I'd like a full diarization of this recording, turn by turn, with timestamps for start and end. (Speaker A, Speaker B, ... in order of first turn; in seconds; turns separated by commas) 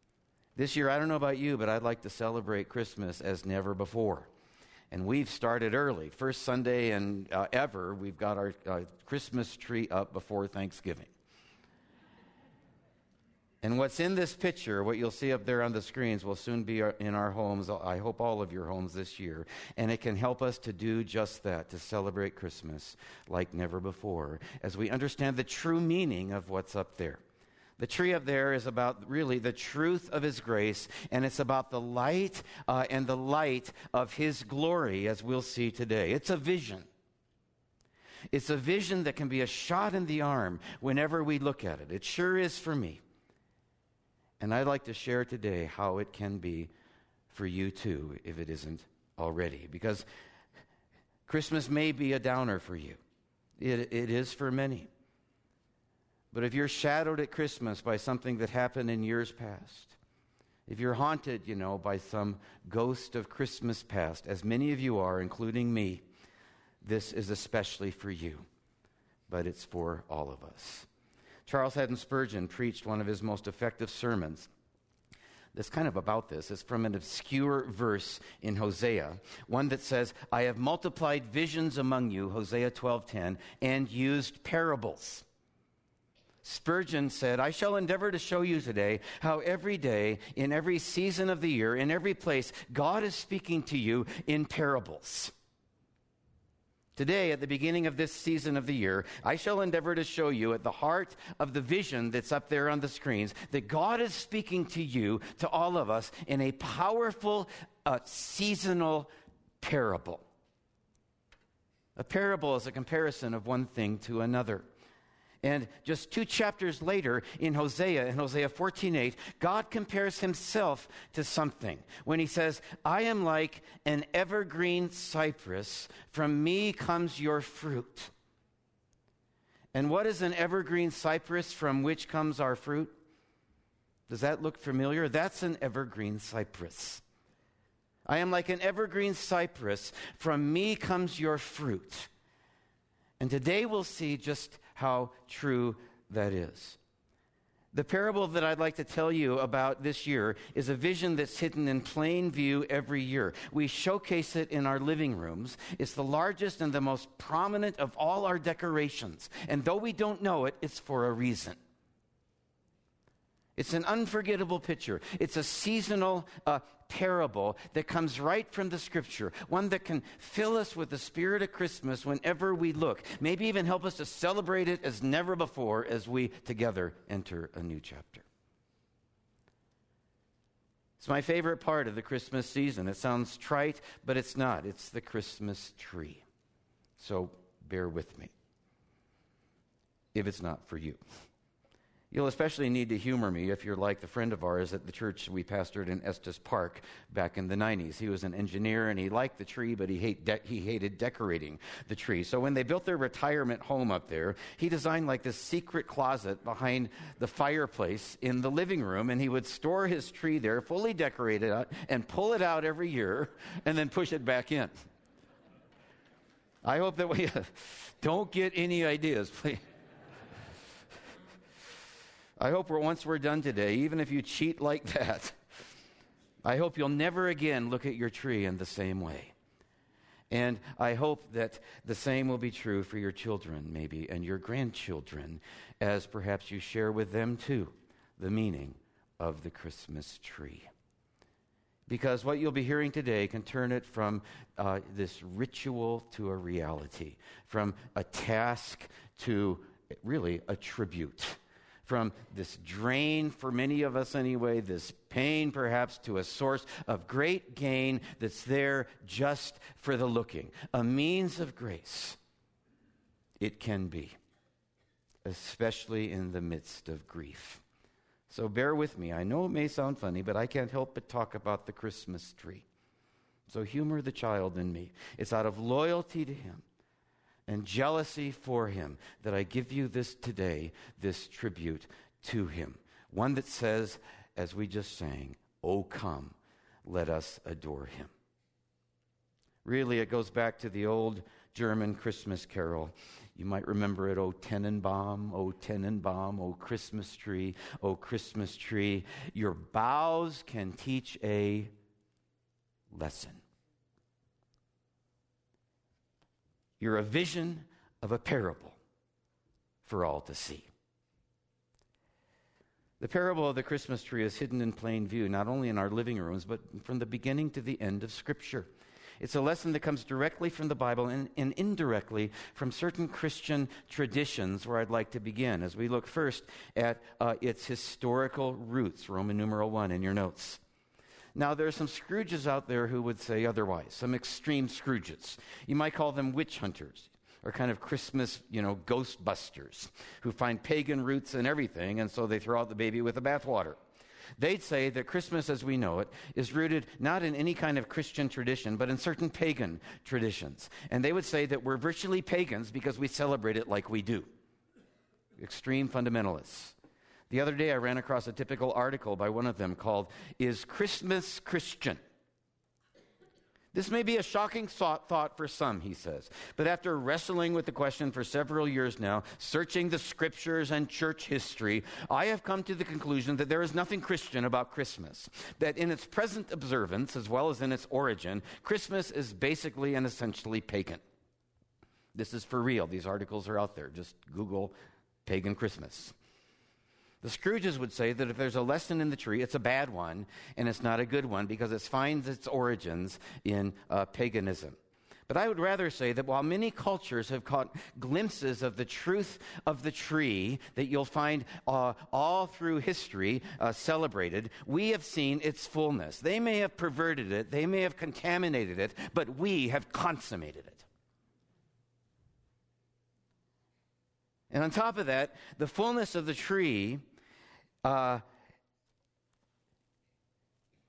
Speaker A: 0.6-4.3, Speaker A: 4.9-11.1, Speaker A: 13.6-27.2, Speaker A: 27.8-36.9, Speaker A: 38.3-43.0, Speaker A: 44.4-46.7, Speaker A: 47.3-50.1, Speaker A: 51.3-53.0, Speaker A: 53.6-54.9, Speaker A: 56.3-60.0, Speaker A: 60.7-66.0, Speaker A: 66.8-68.5, Speaker A: 69.3-70.9, Speaker A: 71.5-74.5, Speaker A: 75.5-85.3, Speaker A: 86.4-95.3, Speaker A: 97.0-109.1, Speaker A: 109.6-110.2, Speaker A: 112.0-114.7, Speaker A: 115.4-128.1, Speaker A: 129.7-132.9, Speaker A: 134.1-137.0, Speaker A: 138.1-142.1, Speaker A: 143.2-146.8, Speaker A: 147.7-161.6, Speaker A: 163.6-178.2, Speaker A: 181.0-186.2, Speaker A: 187.0-188.3, Speaker A: 190.1-191.0, Speaker A: 192.1-214.7, Speaker A: 216.6-219.6, Speaker A: 222.4-225.4, Speaker A: 226.4-229.3, Speaker A: 230.3-240.7, Speaker A: 241.9-262.2, Speaker A: 263.4-264.2, Speaker A: 265.2-267.6, Speaker A: 268.3-272.7, Speaker A: 273.5-276.6, Speaker A: 277.5-288.1, Speaker A: 289.6-301.7, Speaker A: 302.9-303.4, Speaker A: 306.8-308.8, Speaker A: 309.8-310.7, Speaker A: 313.0-318.7, Speaker A: 319.2-330.6, Speaker A: 331.4-343.8, Speaker A: 344.4-354.3, Speaker A: 355.4-356.8, Speaker A: 357.3-362.0, Speaker A: 363.7-381.0, Speaker A: 382.1-384.8, Speaker A: 385.3-386.1, Speaker A: 387.2-410.9, Speaker A: 414.5-417.1, Speaker A: 417.8-418.2